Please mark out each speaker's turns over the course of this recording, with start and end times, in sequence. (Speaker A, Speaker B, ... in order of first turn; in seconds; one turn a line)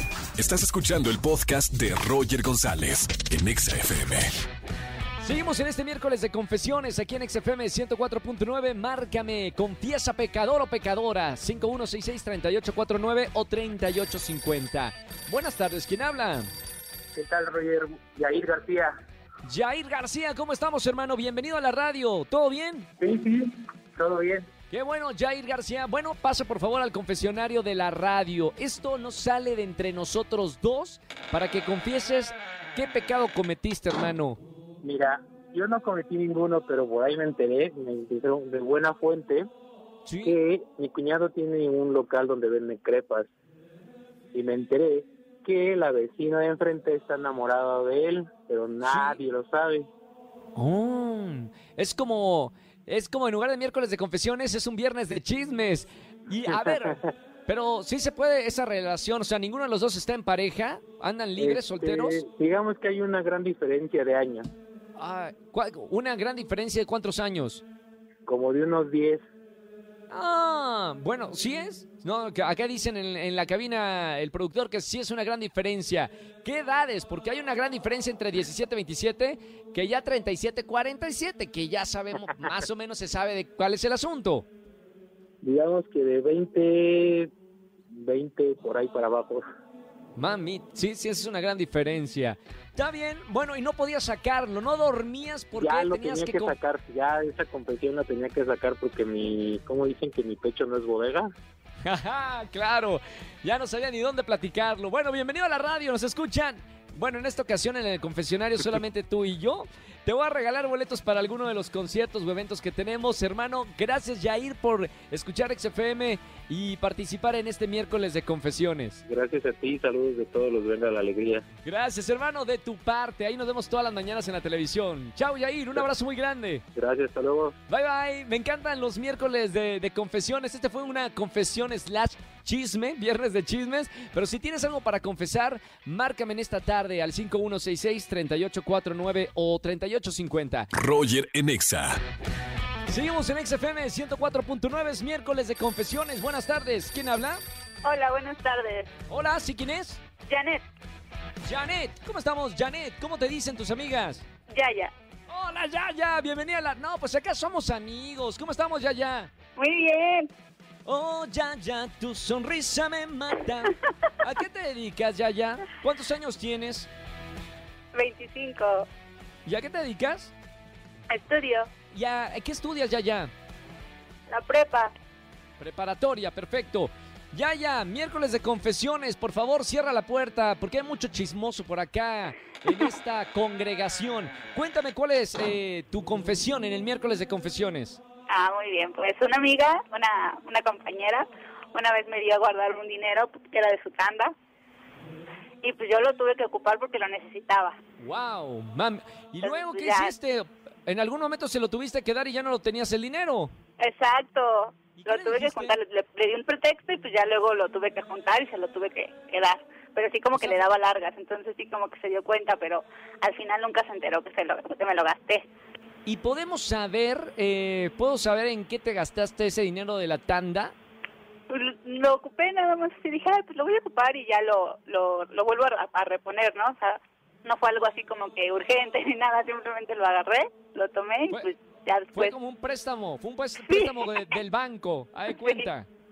Speaker A: 0.4-4.3
Speaker B: 5.2-16.5
Speaker C: 17.1-18.9
Speaker B: 19.4-22.9
Speaker C: 23.0-24.5
Speaker B: 24.7-34.4
Speaker C: 34.8-39.5
Speaker B: 40.1-40.4
Speaker C: 40.2-43.3
Speaker C: 44.3-49.9
Speaker B: 48.8-49.2
Speaker B: 50.6-62.2
Speaker C: 56.5-57.0
Speaker C: 61.4-64.5
Speaker B: 65.0-67.6
Speaker C: 68.3-69.2
Speaker B: 70.1-84.5
Speaker C: 85.4-87.3
Speaker C: 87.9-89.4
Speaker B: 90.2-96.5
Speaker C: 95.6-101.3
Speaker B: 101.8-119.0
Speaker C: 119.1-121.4
Speaker B: 121.6-126.6
Speaker C: 126.8-127.5
Speaker B: 127.7-140.7
Speaker A: 140.7-142.0
Speaker B: 142.9-147.4
Speaker D: 147.8-148.9
Speaker B: 149.1-150.0
Speaker D: 150.3-150.6
Speaker B: 151.4-154.2
Speaker D: 154.5-154.9
Speaker B: 155.3-159.3
Speaker D: 159.6-160.3
Speaker B: 160.8-166.9
Speaker D: 167.9-168.9
Speaker B: 169.5-170.3
Speaker D: 171.1-171.7
Speaker B: 171.9-173.3
Speaker D: 174.3-174.9
Speaker B: 175.6-188.0
Speaker D: 188.3-194.3
Speaker D: 195.6-197.8
Speaker B: 198.0-203.5
Speaker D: 199.4-200.1
Speaker D: 203.8-215.5
Speaker B: 205.0-205.8
Speaker B: 216.1-220.8
Speaker D: 221.5-232.3
Speaker B: 232.1-235.9
Speaker D: 233.7-234.1
Speaker D: 235.3-235.7